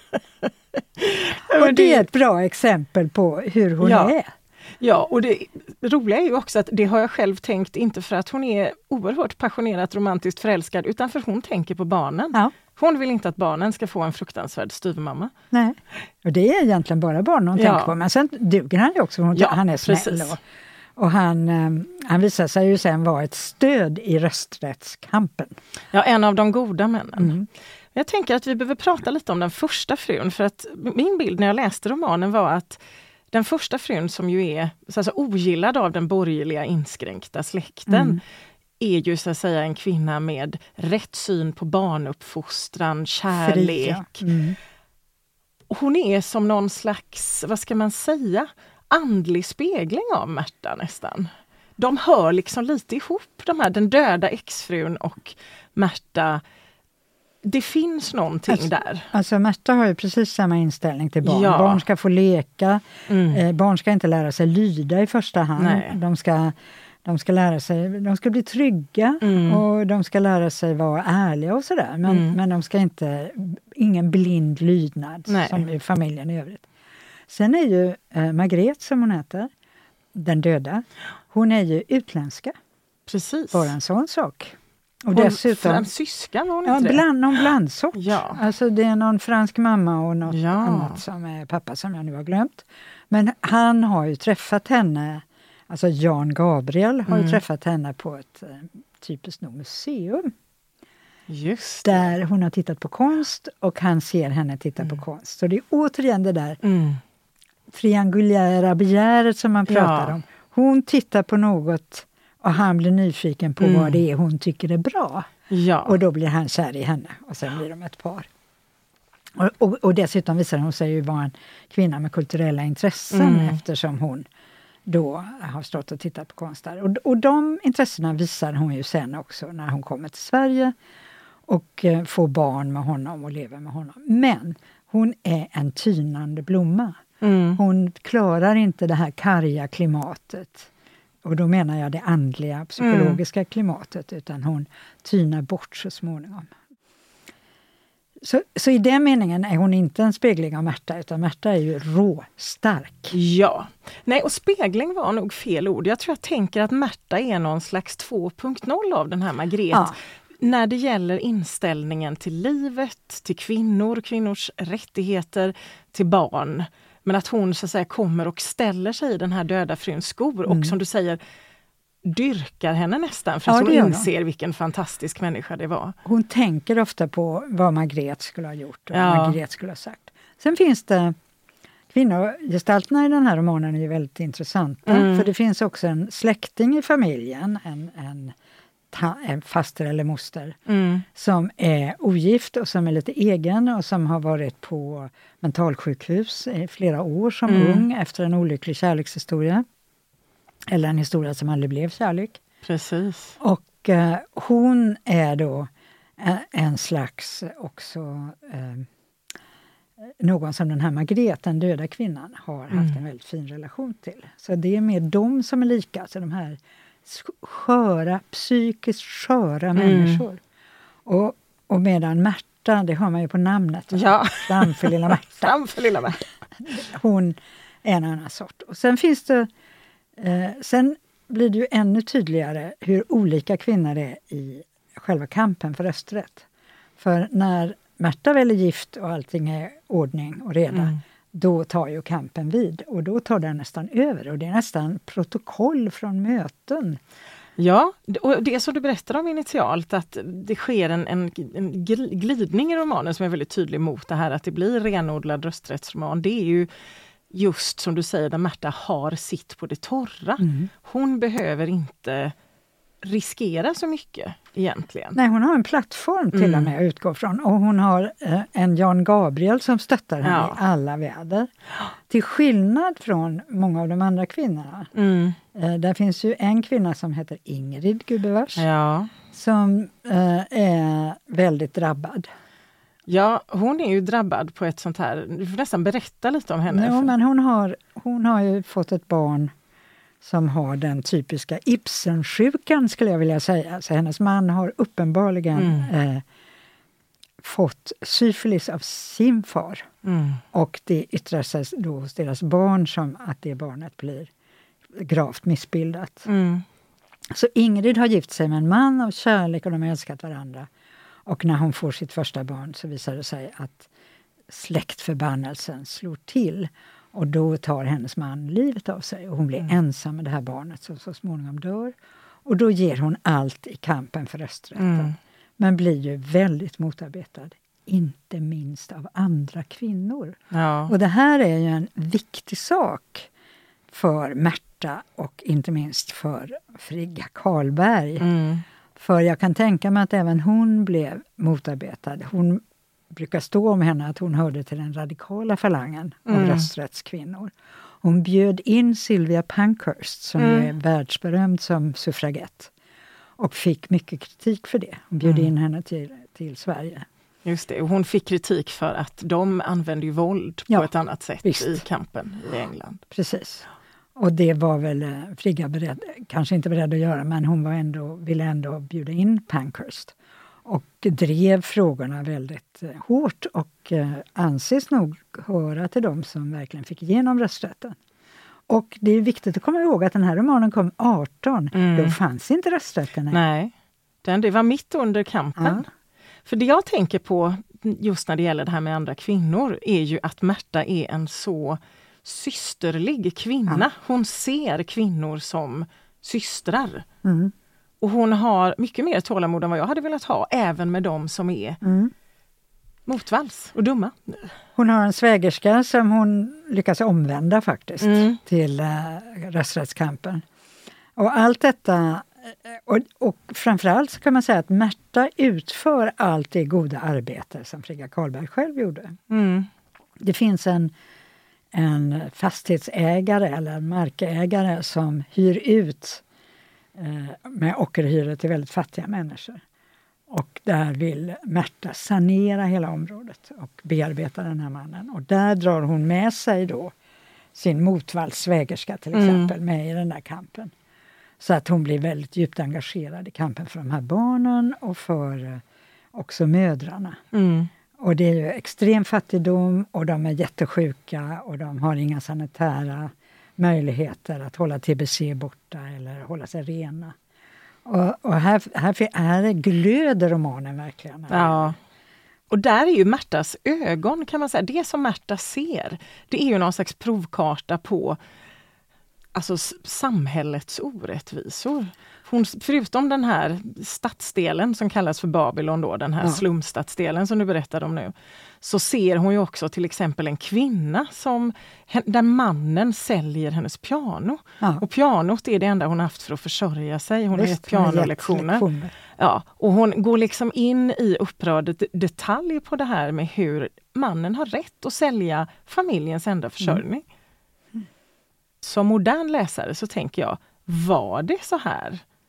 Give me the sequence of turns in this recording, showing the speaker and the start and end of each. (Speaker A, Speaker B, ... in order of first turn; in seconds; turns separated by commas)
Speaker A: 1.0-2.0, Speaker B: 1.5-4.3, Speaker A: 3.8-4.1, Speaker A: 4.8-15.3, Speaker B: 15.5-20.4, Speaker A: 17.6-17.9, Speaker A: 19.3-20.4, Speaker B: 21.0-25.6, Speaker A: 25.9-27.3, Speaker B: 27.2-27.5, Speaker A: 27.9-32.8, Speaker A: 33.3-38.2, Speaker B: 37.9-38.2, Speaker A: 38.8-44.3, Speaker B: 43.3-44.6, Speaker A: 45.7-56.4, Speaker A: 57.4-59.1, Speaker B: 58.5-76.7, Speaker A: 61.2-61.8, Speaker A: 63.1-63.4, Speaker A: 65.6-66.0, Speaker A: 69.2-69.6, Speaker A: 72.1-72.4, Speaker A: 75.3-75.6, Speaker B: 77.3-79.5, Speaker B: 80.1-82.5, Speaker A: 83.1-83.7, Speaker B: 83.5-85.9, Speaker A: 85.1-87.0, Speaker B: 86.7-100.3, Speaker A: 87.9-88.4, Speaker A: 90.3-91.0, Speaker A: 97.1-97.4, Speaker A: 101.3-102.1, Speaker B: 101.8-106.6, Speaker A: 106.6-107.0, Speaker B: 107.7-115.3, Speaker A: 109.7-110.2, Speaker A: 113.6-114.0, Speaker A: 115.5-116.0, Speaker B: 115.8-118.3, Speaker B: 119.4-124.3, Speaker A: 123.1-123.6, Speaker B: 124.9-130.8, Speaker B: 131.5-137.0, Speaker A: 137.2-137.6, Speaker B: 137.6-140.7, Speaker B: 141.2-146.5, Speaker A: 142.8-143.2, Speaker B: 148.2-153.2, Speaker A: 153.1-171.2, Speaker B: 170.5-170.8, Speaker A: 172.1-176.0, Speaker B: 173.5-174.1, Speaker B: 176.1-181.2, Speaker A: 178.9-179.4, Speaker B: 181.9-188.3, Speaker A: 184.9-185.3, Speaker B: 188.9-190.6, Speaker A: 190.7-191.1, Speaker B: 191.2-199.7, Speaker A: 197.5-197.8, Speaker B: 200.7-202.4, Speaker A: 202.6-203.4, Speaker B: 203.4-208.9, Speaker B: 210.1-220.4, Speaker A: 219.8-220.2, Speaker B: 221.1-225.5, Speaker A: 223.9-226.3, Speaker B: 226.6-229.5, Speaker B: 230.2-236.5, Speaker B: 237.0-247.0, Speaker A: 240.7-241.0, Speaker A: 247.6-256.7, Speaker A: 257.3-262.4, Speaker B: 260.4-260.7, Speaker A: 263.0-265.2, Speaker B: 265.1-271.5, Speaker A: 266.3-266.7, Speaker A: 270.2-270.6, Speaker B: 272.1-274.9, Speaker A: 274.9-275.4, Speaker B: 275.6-278.6, Speaker A: 278.6-279.1, Speaker B: 279.3-282.3, Speaker A: 283.1-287.1, Speaker B: 286.7-289.5, Speaker B: 290.2-296.2, Speaker A: 295.6-295.9, Speaker B: 297.4-299.9, Speaker A: 300.1-300.4, Speaker B: 300.5-304.3, Speaker B: 304.9-306.3, Speaker A: 306.3-306.6, Speaker B: 307.3-310.7, Speaker B: 311.3-313.9, Speaker B: 314.5-330.4, Speaker A: 324.8-325.1, Speaker A: 330.5-330.9, Speaker B: 330.9-333.3, Speaker B: 333.9-338.3, Speaker A: 338.2-338.6, Speaker B: 339.0-352.7, Speaker A: 346.3-346.7, Speaker A: 350.4-350.7, Speaker B: 353.4-357.1, Speaker A: 355.2-355.5, Speaker A: 357.4-363.0, Speaker B: 361.4-361.8, Speaker B: 363.1-363.6, Speaker B: 364.2-378.0, Speaker B: 378.7-383.4, Speaker A: 381.7-382.2, Speaker A: 383.3-383.7, Speaker A: 384.2-385.9, Speaker B: 385.6-385.8, Speaker A: 386.4-397.1, Speaker B: 397.2-397.5, Speaker A: 398.0-401.8, Speaker B: 401.8-402.1, Speaker A: 403.1-404.5, Speaker B: 404.8-410.4, Speaker A: 408.0-408.4, Speaker B: 411.2-419.2, Speaker A: 419.3-419.7, Speaker B: 420.2-420.9, Speaker B: 421.7-426.2, Speaker B: 426.9-429.6, Speaker B: 430.3-436.9, Speaker B: 437.6-440.7, Speaker A: 439.1-439.5, Speaker B: 441.4-445.6, Speaker B: 446.1-447.2, Speaker A: 447.3-447.7, Speaker B: 448.0-457.2, Speaker B: 457.9-461.7, Speaker A: 461.3-461.8, Speaker A: 462.5-468.2, Speaker A: 469.3-488.6, Speaker B: 487.3-488.9, Speaker A: 489.2-497.0, Speaker A: 498.6-502.0